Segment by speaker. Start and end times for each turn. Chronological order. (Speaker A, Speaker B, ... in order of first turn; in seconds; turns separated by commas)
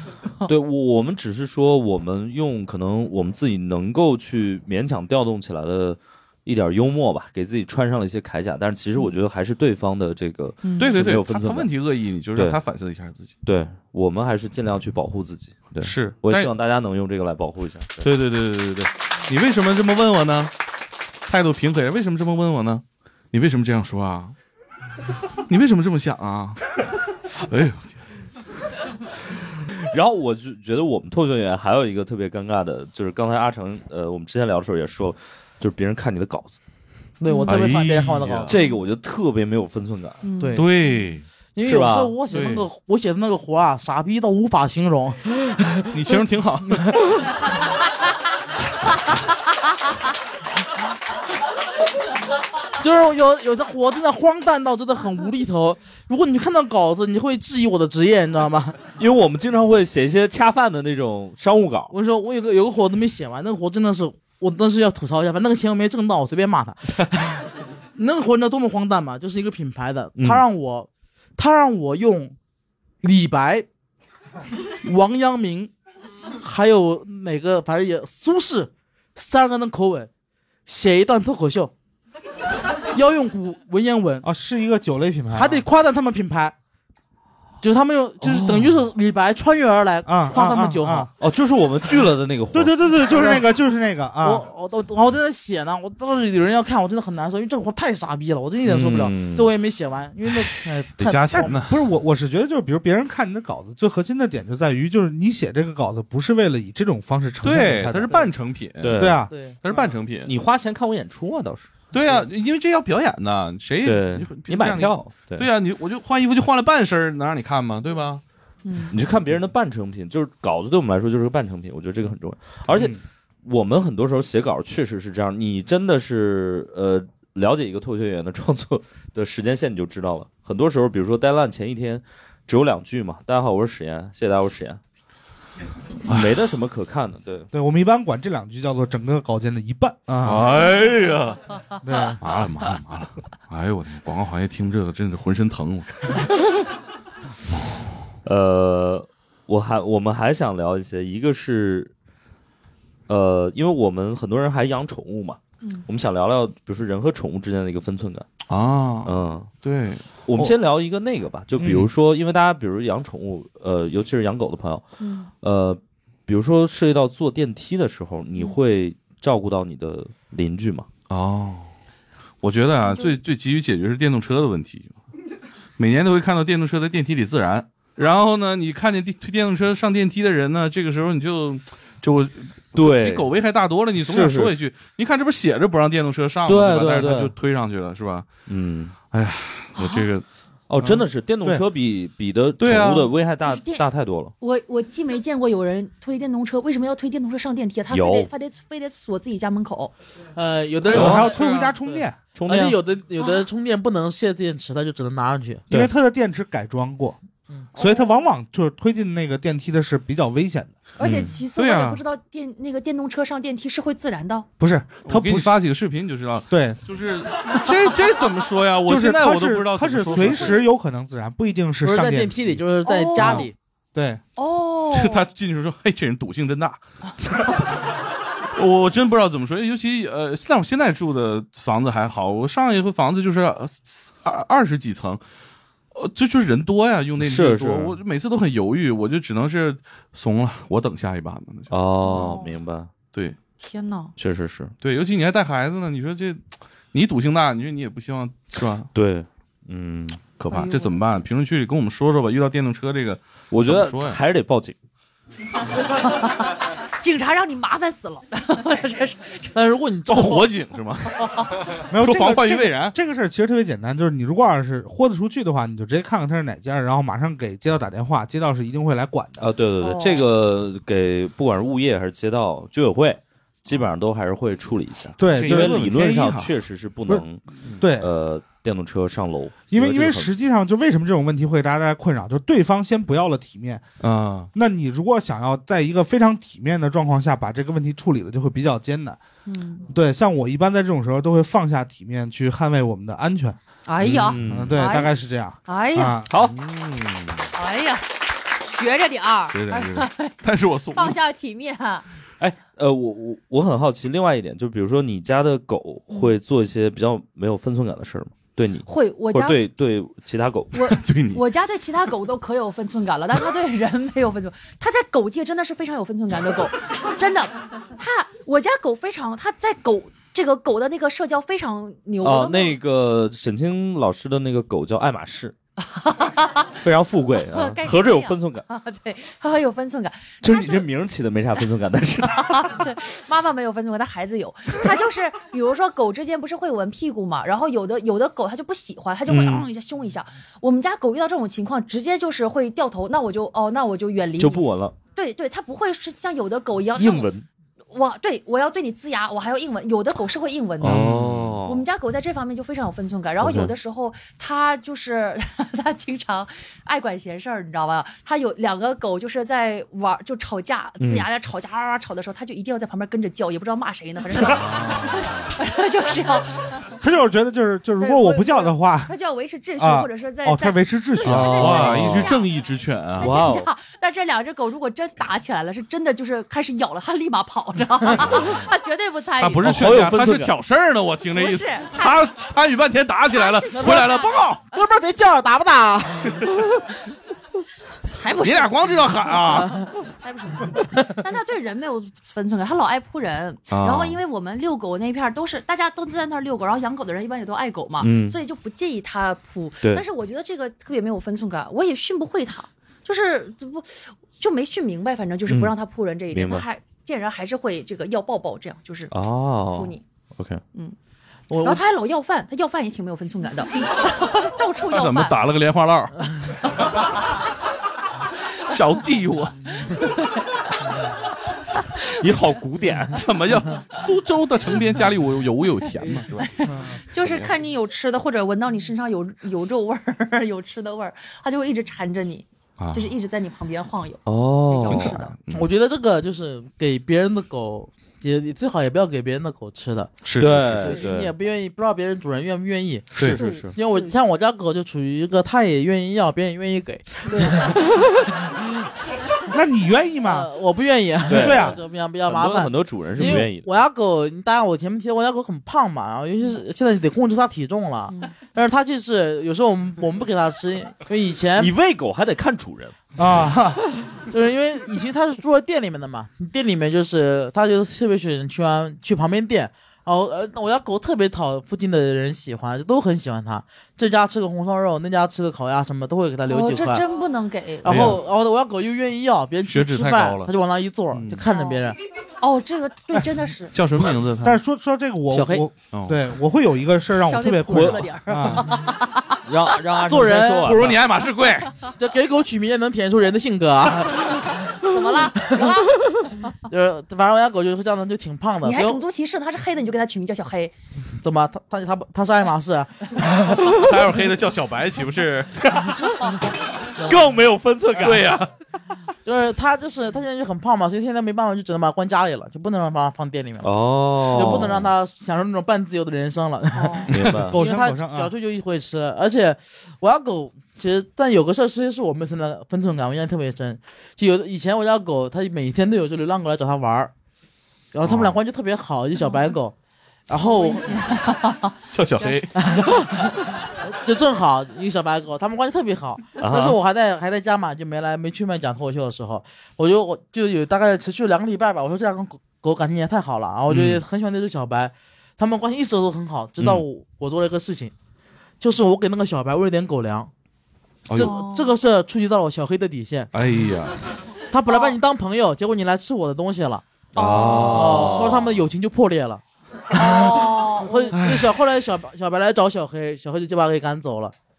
Speaker A: 0.5-11.7, Speaker B: 10.6-10.9, Speaker C: 10.8-13.3, Speaker A: 13.4-18.0, Speaker C: 15.8-16.5, Speaker C: 18.0-20.5, Speaker C: 21.3-24.3, Speaker C: 25.5-26.6, Speaker C: 27.3-28.0, Speaker A: 29.9-36.6, Speaker D: 37.2-38.5, Speaker C: 37.4-38.5, Speaker A: 38.5-40.2, Speaker B: 40.2-40.7, Speaker D: 40.4-40.7, Speaker C: 40.5-41.2, Speaker D: 41.5-46.2, Speaker A: 41.6-42.2, Speaker C: 42.3-42.6, Speaker C: 45.9-47.1, Speaker D: 46.7-47.1, Speaker D: 52.8-58.8, Speaker A: 59.0-61.9, Speaker D: 61.9-67.4, Speaker D: 68.0-72.3, Speaker A: 70.2-70.4, Speaker D: 73.0-73.7, Speaker D: 74.8-75.7, Speaker D: 76.4-80.1, Speaker D: 80.7-81.7, Speaker D: 82.9-84.2, Speaker E: 84.2-85.6, Speaker D: 85.3-86.5, Speaker D: 87.6-91.1, Speaker E: 90.0-91.1, Speaker A: 91.2-92.9, Speaker E: 92.5-94.4, Speaker D: 93.1-93.4, Speaker D: 94.2-101.5, Speaker A: 98.6-99.5, Speaker C: 101.0-101.7, Speaker E: 101.3-108.1, Speaker C: 107.4-110.3, Speaker A: 108.8-109.3, Speaker E: 109.0-109.3, Speaker D: 109.3-109.8, Speaker A: 110.2-111.7, Speaker C: 111.9-118.2, Speaker A: 113.8-115.5, Speaker B: 118.6-119.0, Speaker A: 118.9-134.8, Speaker E: 122.7-123.0, Speaker A: 136.1-137.5, Speaker C: 136.1-136.4, Speaker E: 137.5-140.5, Speaker C: 140.2-141.4, Speaker E: 141.8-142.2, Speaker C: 142.2-146.1, Speaker A: 148.2-151.9, Speaker A: 153.1-158.3, Speaker C: 158.5-160.0, Speaker A: 159.0-159.5, Speaker A: 160.2-164.8, Speaker E: 161.6-161.8, Speaker B: 165.0-165.3, Speaker A: 165.4-170.9, Speaker C: 171.1-171.7, Speaker C: 172.4-174.9, Speaker B: 172.8-173.1, Speaker C: 175.8-188.2, Speaker A: 182.7-183.3, Speaker A: 184.0-184.6, Speaker A: 186.5-187.3, Speaker A: 188.5-188.9, Speaker C: 189.1-190.2, Speaker B: 189.7-190.1, Speaker A: 190.7-194.3, Speaker C: 192.6-193.1, Speaker B: 193.4-193.8, Speaker B: 194.4-199.9, Speaker A: 197.9-198.3, Speaker D: 200.3-201.4, Speaker E: 200.9-202.2, Speaker A: 200.9-201.3, Speaker C: 201.1-201.8, Speaker A: 202.3-202.8, Speaker D: 202.5-205.7, Speaker B: 203.2-203.4, Speaker E: 205.7-207.2, Speaker E: 207.7-210.8, Speaker B: 207.8-208.1, Speaker B: 211.0-214.5, Speaker A: 211.0-211.3, Speaker C: 211.5-212.0, Speaker E: 214.6-215.5, Speaker C: 215.0-220.6, Speaker E: 216.5-216.8, Speaker E: 218.8-222.6, Speaker D: 221.8-223.5, Speaker B: 222.8-223.5, Speaker E: 223.2-224.2, Speaker B: 224.4-225.2, Speaker C: 224.9-226.8, Speaker C: 228.6-235.2, Speaker C: 235.9-242.3, Speaker A: 237.2-238.0, Speaker A: 241.7-242.9, Speaker B: 242.1-242.5, Speaker B: 243.6-244.1, Speaker A: 244.2-244.7, Speaker C: 244.8-246.4, Speaker C: 246.9-248.9, Speaker A: 248.9-250.2, Speaker C: 250.4-254.2, Speaker B: 250.5-251.0, Speaker A: 253.5-254.8, Speaker B: 255.9-259.4, Speaker D: 259.5-260.4, Speaker C: 260.1-262.9, Speaker E: 261.9-269.5, Speaker A: 269.4-280.3, Speaker B: 269.8-270.3, Speaker E: 275.2-275.8, Speaker C: 275.3-276.5, Speaker E: 277.8-278.1, Speaker E: 279.7-283.8, Speaker C: 284.0-284.5, Speaker E: 284.5-289.2, Speaker B: 289.4-289.9, Speaker E: 289.9-293.6, Speaker B: 293.9-296.2, Speaker C: 294.1-294.4, Speaker A: 294.2-294.8, Speaker E: 294.5-296.3, Speaker A: 296.3-296.6, Speaker C: 296.4-297.4, Speaker B: 297.5-300.3, Speaker C: 299.5-301.2, Speaker B: 300.9-302.0, Speaker A: 302.4-311.0, Speaker B: 306.1-306.3, Speaker B: 308.9-309.6, Speaker B: 310.7-322.8, Speaker C: 310.9-311.4, Speaker A: 322.2-325.5, Speaker B: 325.8-326.8, Speaker A: 326.8-328.6, Speaker B: 327.5-330.9, Speaker A: 330.4-332.8, Speaker B: 332.2-347.3, Speaker A: 339.3-339.7, Speaker A: 344.4-344.9, Speaker A: 347.0-347.4, Speaker B: 347.9-351.0, Speaker A: 350.8-351.8, Speaker C: 350.8-351.6, Speaker B: 351.6-366.7, Speaker A: 353.4-353.7, Speaker A: 361.0-361.3, Speaker E: 367.0-369.1, Speaker B: 368.0-372.5, Speaker E: 369.8-372.0, Speaker A: 371.2-372.3, Speaker C: 371.4-373.3, Speaker A: 373.2-373.7, Speaker B: 373.2-379.7, Speaker C: 379.4-384.6, Speaker A: 379.6-380.5, Speaker B: 381.4-382.3, Speaker B: 383.3-384.6, Speaker D: 383.7-384.1, Speaker D: 384.7-386.5, Speaker B: 388.0-389.4, Speaker C: 388.4-389.8, Speaker B: 390.2-409.1, Speaker C: 393.7-394.2, Speaker A: 398.0-398.4, Speaker A: 405.5-405.8, Speaker A: 406.3-406.6, Speaker A: 409.1-410.6, Speaker B: 409.7-410.0, Speaker D: 411.5-411.8, Speaker B: 411.6-415.4, Speaker C: 414.9-416.9, Speaker C: 418.6-419.6, Speaker B: 419.8-420.3, Speaker A: 422.2-423.2, Speaker C: 423.1-426.4, Speaker B: 426.4-435.3, Speaker A: 427.2-427.5, Speaker C: 432.8-433.1, Speaker A: 434.2-435.1, Speaker C: 434.9-435.7, Speaker D: 435.5-440.1, Speaker C: 440.2-441.0, Speaker A: 440.4-441.3, Speaker D: 440.8-448.7, Speaker A: 443.1-443.8, Speaker B: 443.4-444.1, Speaker B: 447.3-447.5, Speaker E: 449.5-450.5, Speaker D: 450.2-461.7, Speaker A: 451.3-453.7, Speaker E: 451.3-451.8, Speaker A: 461.6-462.9, Speaker E: 463.2-463.9, Speaker D: 464.3-477.0, Speaker B: 476.5-478.1, Speaker D: 477.8-482.0, Speaker C: 477.9-478.2, Speaker C: 479.6-480.5, Speaker C: 481.1-481.4, Speaker B: 481.5-481.8, Speaker B: 482.4-483.7, Speaker C: 483.7-484.6, Speaker E: 484.4-488.7, Speaker D: 485.3-485.6, Speaker C: 485.9-486.2, Speaker B: 487.2-489.4, Speaker A: 487.7-488.0, Speaker A: 489.4-491.1, Speaker D: 490.1-490.9, Speaker C: 490.6-491.7, Speaker D: 492.0-494.6, Speaker B: 494.8-495.9, Speaker D: 495.4-495.7, Speaker D: 496.7-499.0, Speaker B: 498.6-500.7, Speaker D: 501.2-503.7, Speaker C: 503.7-505.5, Speaker A: 505.6-506.3, Speaker A: 506.9-508.3, Speaker C: 508.0-508.5, Speaker D: 509.2-527.1, Speaker A: 513.6-514.9, Speaker B: 516.7-517.1, Speaker A: 517.1-517.6, Speaker E: 517.2-518.3, Speaker D: 527.9-529.7, Speaker A: 528.0-528.3, Speaker D: 530.3-530.9, Speaker B: 530.4-532.6, Speaker C: 531.9-532.5, Speaker D: 532.5-547.9, Speaker A: 536.4-536.8, Speaker C: 543.7-544.0, Speaker C: 546.6-546.8, Speaker D: 548.6-550.3, Speaker C: 551.1-551.3, Speaker D: 551.1-553.3, Speaker B: 551.2-551.7, Speaker C: 553.3-554.0, Speaker D: 554.5-556.8, Speaker B: 554.7-554.9, Speaker B: 557.1-558.0, Speaker A: 557.1-558.5, Speaker D: 557.7-564.3, Speaker B: 559.9-561.1, Speaker C: 561.1-561.5